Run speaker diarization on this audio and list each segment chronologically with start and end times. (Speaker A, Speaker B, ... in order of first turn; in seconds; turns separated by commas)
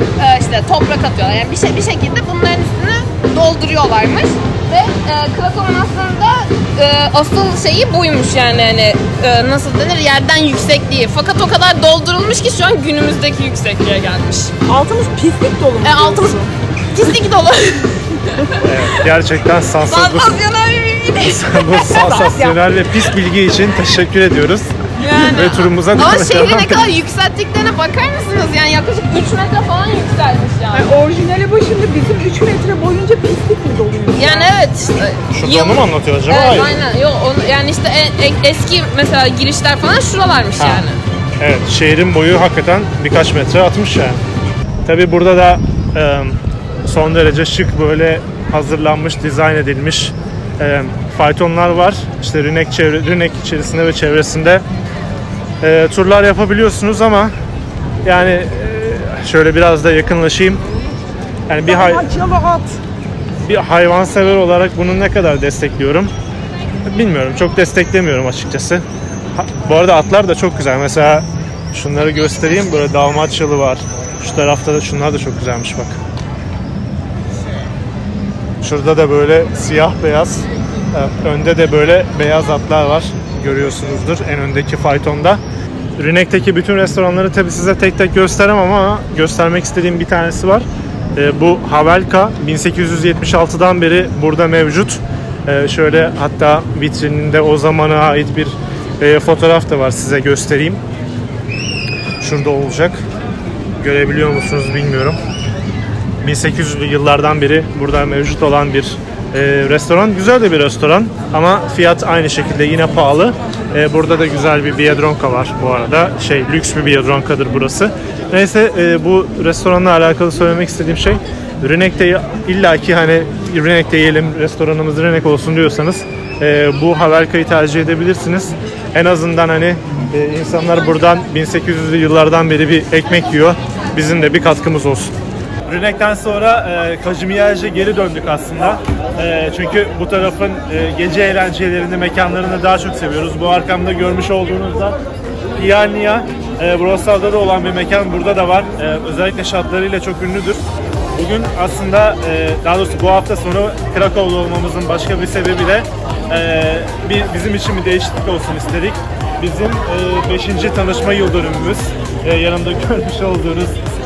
Speaker A: 0.2-14.5, Speaker B: 14.7-16.5, Speaker A: 15.8-19.1, Speaker C: 18.6-20.4, Speaker A: 19.8-22.5, Speaker C: 21.2-26.9, Speaker A: 25.0-30.9, Speaker B: 30.7-34.5, Speaker A: 34.1-41.0, Speaker C: 35.3-36.7, Speaker C: 40.6-40.9, Speaker C: 41.4-44.2, Speaker C: 44.8-54.6, Speaker C: 55.6-57.3, Speaker C: 58.0-60.6, Speaker C: 61.5-62.0, Speaker B: 61.6-62.8, Speaker C: 63.4-66.1, Speaker C: 66.8-76.0, Speaker C: 78.6-85.4, Speaker C: 86.0-100.8, Speaker C: 102.2-103.0, Speaker C: 103.8-105.2, Speaker C: 106.2-135.1, Speaker C: 135.7-145.0, Speaker C: 145.6-163.8